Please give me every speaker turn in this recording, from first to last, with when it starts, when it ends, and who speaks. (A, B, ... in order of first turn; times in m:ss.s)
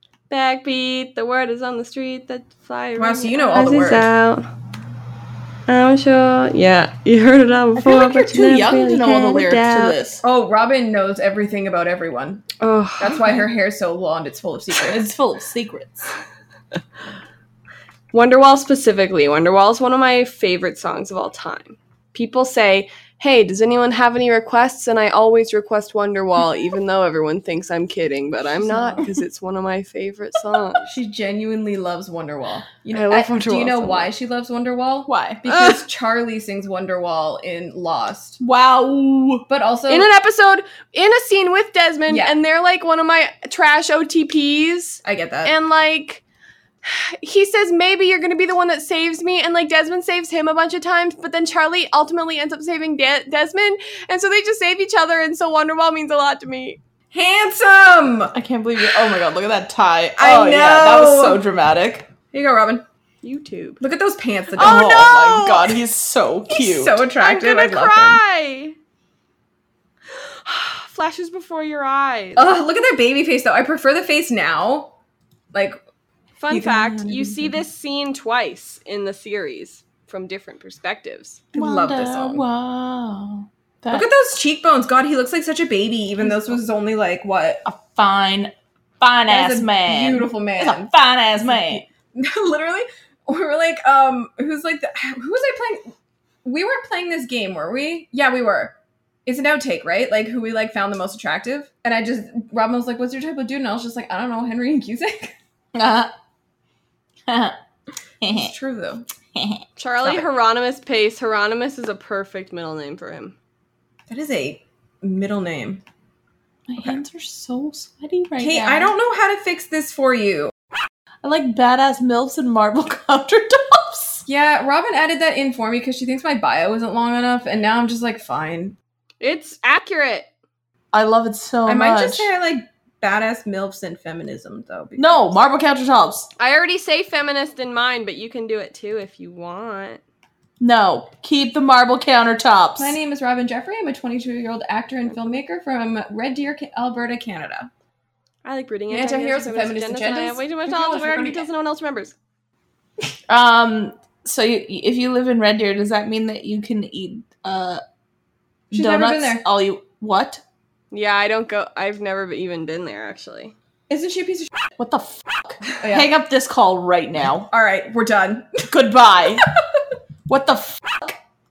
0:00.3-0:04.4 A
0:03.0-0:04.1 B
0:05.7-0:10.0 A
0:07.8-0:10.2 C
0:10.2-0:15.1 B
0:12.6-0:13.4 A
0:14.9-0:16.1 C
0:18.1-0:30.8 A
0:28.6-0:29.0 B
0:30.8-0:38.4 B
0:32.9-0:34.1 A
0:35.1-0:35.8 C
0:38.4-0:39.4 C
0:39.5-0:40.1 B
0:39.9-0:46.2 A
0:42.1-0:42.4 B
0:45.0-0:45.5 B
0:46.8-0:56.8 A
0:57.1-0:59.3 B
0:58.3-1:02.1 C
1:00.2-1:01.4 B
1:02.3-1:02.8 B
1:03.2-1:03.8 A
1:03.8-1:04.8 B
1:04.6-1:05.8 A
1:04.6-1:07.1 C
1:06.5-1:08.2 B
1:07.2-1:08.8 A
1:10.1-1:12.5 A
1:12.4-1:14.9 B
1:16.4-1:21.4 A
1:16.5-1:17.6 B
1:21.5-1:22.4 B
1:21.5-1:24.1 C
1:23.9-1:27.6 B
1:26.2-1:26.6 C
1:27.6-1:31.8 C
1:29.3-1:35.9 B
1:36.4-1:38.7 B
1:39.2-1:45.3 B
1:45.7-1:46.1 C
1:47.3-1:47.6 C
1:48.2-1:48.5 C
1:48.3-1:49.1 B
1:49.3-1:49.6 C
1:49.8-1:53.3 A
1:50.0-1:50.3 B
1:54.1-1:55.8 B
1:56.7-1:58.9 C
1:58.4-2:00.5 B
2:01.2-2:04.2 C
2:04.2-2:08.8 B
2:09.2-2:10.3 A
2:10.9-2:12.3 C
2:11.6-2:15.4 B
2:15.0-2:16.3 C
2:16.4-2:20.0 A
2:20.6-2:23.0 C
2:22.8-2:27.7 B
2:25.0-2:25.4 A
2:28.4-2:32.1 A
2:28.9-2:31.5 B
2:33.3-2:37.8 C
2:38.7-2:39.4 B
2:38.7-2:40.4 C
2:40.9-2:43.5 A
2:43.9-2:44.5 B
2:44.8-2:47.5 C
2:45.7-2:46.1 B
2:47.5-2:48.7 B
2:48.7-2:49.5 C
2:50.3-2:51.2 C